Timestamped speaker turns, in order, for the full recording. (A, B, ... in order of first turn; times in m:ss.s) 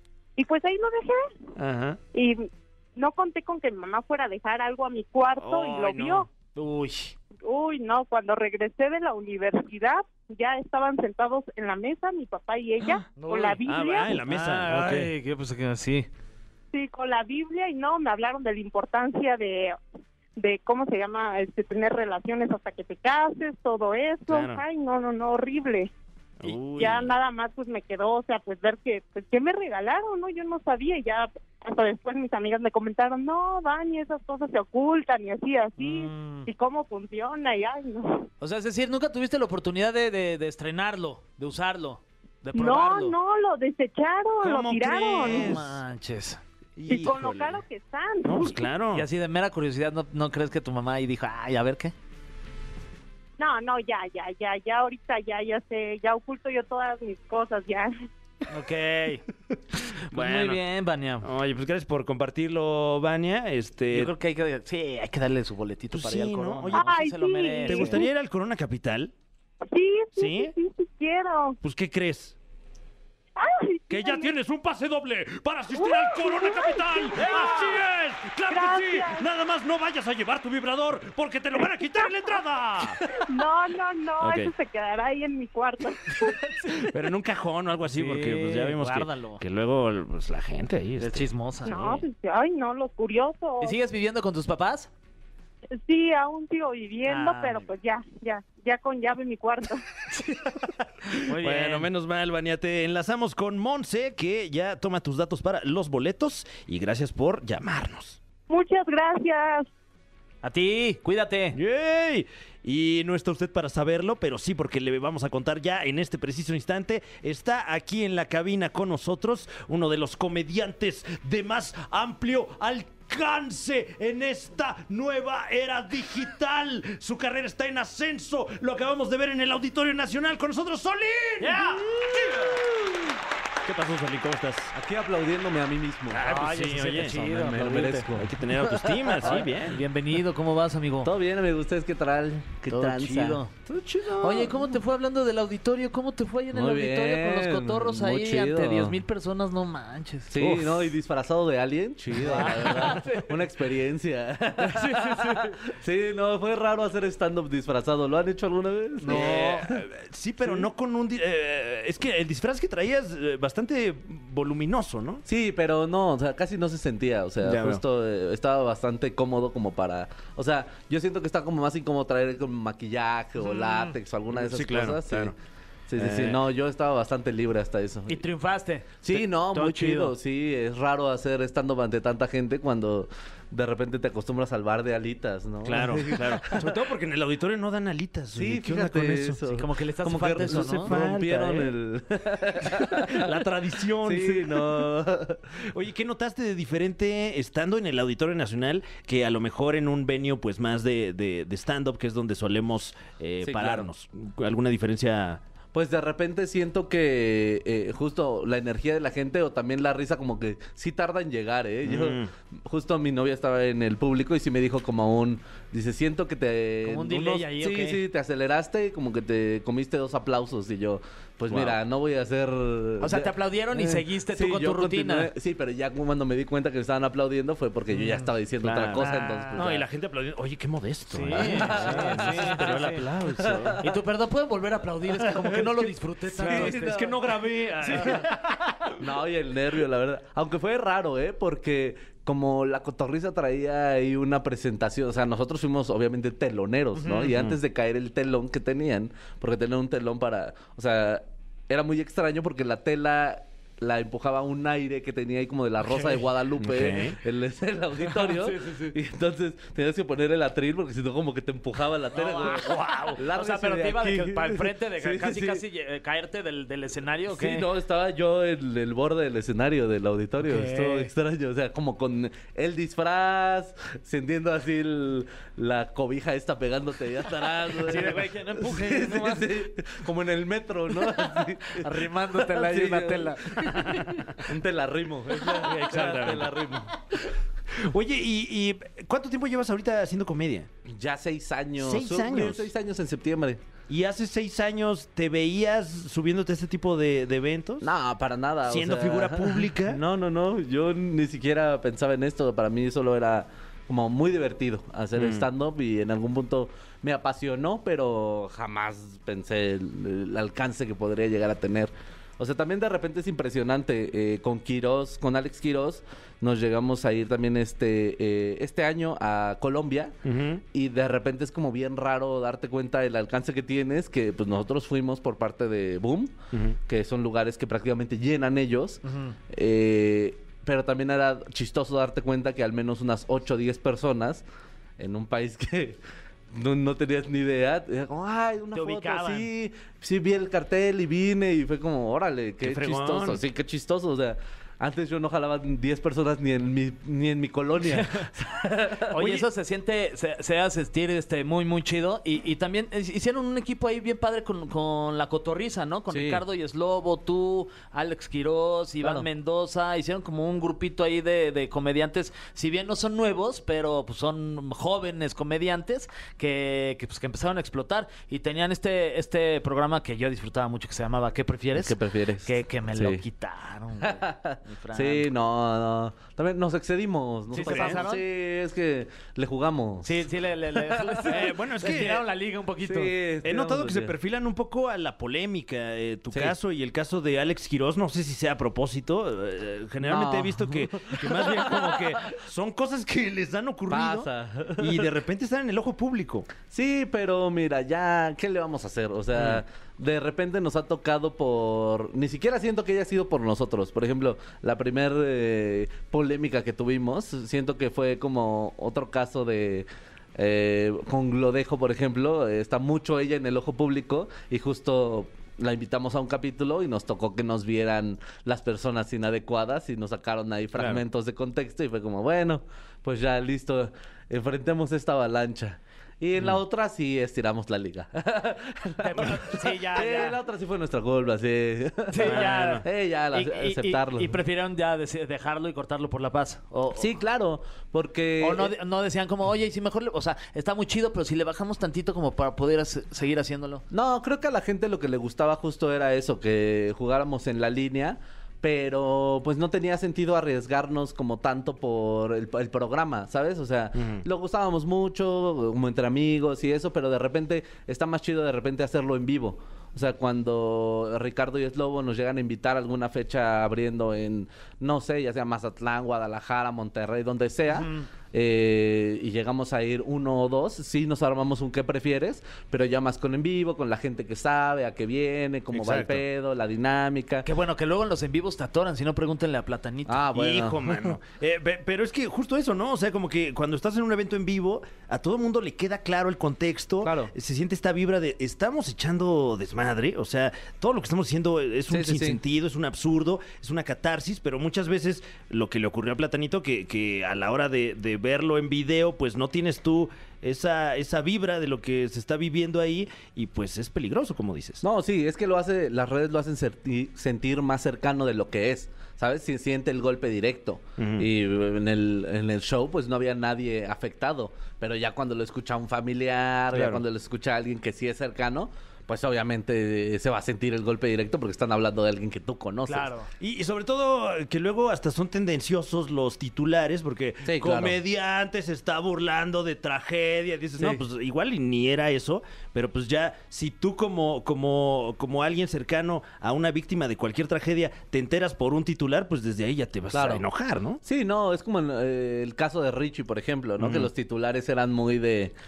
0:00.4-0:01.2 A
0:01.6-0:02.0 B
0:02.1-0:06.3 A
0:05.4-0:06.3 B
0:06.6-0:07.1 C
0:07.5-0:14.2 A
0:13.1-0:13.6 C
0:13.6-0:15.1 B
0:14.2-0:16.1 C
0:16.7-0:19.8 A
0:20.4-0:25.9 A
0:24.3-0:24.6 B
0:26.4-0:27.1 B
0:26.6-0:38.3 A
0:35.8-0:36.5 C
0:38.4-0:43.2 C
0:42.5-0:45.5 A
0:44.4-0:45.8 B
0:45.2-0:46.4 C
0:46.8-0:47.6 B
0:46.9-0:48.6 A
0:48.2-0:49.1 B
0:48.9-0:51.9 C
0:53.4-0:57.9 A
0:58.5-0:59.2 C
0:59.8-1:01.3 C
1:00.0-1:00.6 B
1:01.2-1:04.1 B
1:03.9-1:08.0 C
1:05.9-1:06.8 B
1:06.7-1:08.1 A
1:07.7-1:09.1 B
1:09.7-1:11.6 A
1:10.2-1:10.5 B
1:11.6-1:12.4 B
1:13.4-1:14.3 A
1:13.9-1:23.0 B
1:15.7-1:17.8 A
1:17.2-1:17.5 C
1:18.5-1:19.3 A
1:23.1-1:26.3 A
1:24.2-1:24.5 B
1:26.2-1:26.9 C
1:26.8-1:32.0 B
1:27.8-1:29.4 C
1:31.0-1:32.0 C
1:31.7-1:33.8 A
1:33.6-1:34.9 C
1:35.7-1:39.8 A
1:37.0-1:37.7 C
1:40.1-1:41.9 C
1:41.3-1:48.2 B
1:48.5-1:49.7 A
1:50.4-1:51.6 C
1:51.5-2:12.9 B
2:11.4-2:12.4 C
2:13.6-2:14.7 B
2:14.7-2:16.3 D
2:16.1-2:18.1 C
2:16.2-2:17.2 B
2:17.0-2:19.4 D
2:18.2-2:19.8 B
2:19.2-2:21.1 C
2:21.0-2:23.4 D
2:22.7-2:23.5 C
2:23.7-2:24.8 B
2:24.2-2:30.9 C
2:26.5-2:29.0 D
2:30.3-2:39.8 D
2:32.2-2:33.3 C
2:34.6-2:35.5 C
2:39.0-2:39.6 C
2:39.1-2:45.2 B
2:45.3-2:55.4 D
2:47.4-2:47.8 B
2:53.4-2:53.9 C
2:54.3-2:55.4 B
2:55.9-2:58.3 D
2:56.0-2:56.4 B
2:58.1-3:00.1 C
2:59.0-3:06.8 D
3:05.6-3:09.4 B
3:08.3-3:13.3 D
3:09.5-3:10.9 C
3:10.4-3:11.7 B
3:12.6-3:15.0 B
3:14.0-3:15.4 D
3:15.6-3:25.4 B
3:23.4-3:23.9 D
3:25.7-3:49.8 D
3:31.8-3:32.3 B
3:36.8-3:38.0 C
3:41.5-3:41.8 B
3:43.0-3:45.3 C
3:47.9-3:48.3 C
3:48.6-3:53.8 B
3:49.0-3:49.7 C
3:51.1-3:53.0 C
3:51.4-3:53.9 D
3:53.8-3:57.0 C
3:55.1-3:59.0 B
3:56.3-3:57.2 D
3:57.8-3:58.3 C
3:58.0-3:58.2 D
3:59.0-4:25.6 D
4:07.0-4:07.3 C
4:07.2-4:07.6 B
4:15.9-4:16.2 C
4:16.6-4:17.2 B
4:18.0-4:18.9 C
4:22.1-4:27.7 C
4:27.3-4:47.0 D
4:30.4-4:31.1 C
4:37.8-4:39.5 C
4:41.7-4:44.3 C
4:43.8-4:44.2 B
4:45.4-4:46.6 B
4:47.7-4:50.7 B
4:50.9-4:53.6 D
4:51.8-4:52.7 B
4:53.9-4:57.9 B
4:57.8-5:20.2 D
4:58.6-5:00.0 B
5:05.2-5:05.5 B
5:20.2-5:20.6 B
5:20.7-5:26.4 D
5:26.5-5:26.8 B
5:26.9-5:34.4 D
5:29.0-5:29.4 C
5:35.0-5:36.0 D
5:36.5-5:49.2 D
5:38.7-5:39.5 C
5:42.6-5:43.4 B
5:47.8-5:48.3 C
5:49.1-6:15.3 C
5:49.2-5:49.5 B
5:56.1-5:56.4 D
6:11.8-6:13.2 D
6:14.0-6:20.2 D
6:17.5-6:18.2 C
6:17.6-6:18.0 B
6:20.0-6:23.1 C
6:20.8-6:21.4 D
6:21.3-6:22.3 B
6:22.8-6:24.1 D
6:23.4-6:36.5 B
6:30.0-6:32.1 D
6:33.9-6:35.0 D
6:36.6-7:14.4 D
6:39.4-6:39.6 B
7:00.8-7:01.0 B
7:09.0-7:10.4 C
7:12.1-7:17.1 C
7:12.2-7:12.9 B
7:16.9-7:18.7 D
7:18.4-7:23.8 C
7:23.9-7:57.5 D
7:33.9-7:34.2 B
7:47.7-7:48.1 C
7:55.7-7:56.2 B
7:57.4-8:00.2 C
8:00.1-8:01.1 D
8:00.3-8:24.8 B
8:07.0-8:07.3 D
8:11.9-8:12.4 D
8:24.8-8:43.1 D
8:31.0-8:31.3 B
8:36.7-8:37.0 B
8:42.9-8:43.3 C
8:43.4-9:01.0 B
8:47.4-8:48.0 D
9:00.1-9:00.4 D
9:01.0-9:05.5 D
9:03.8-9:04.1 B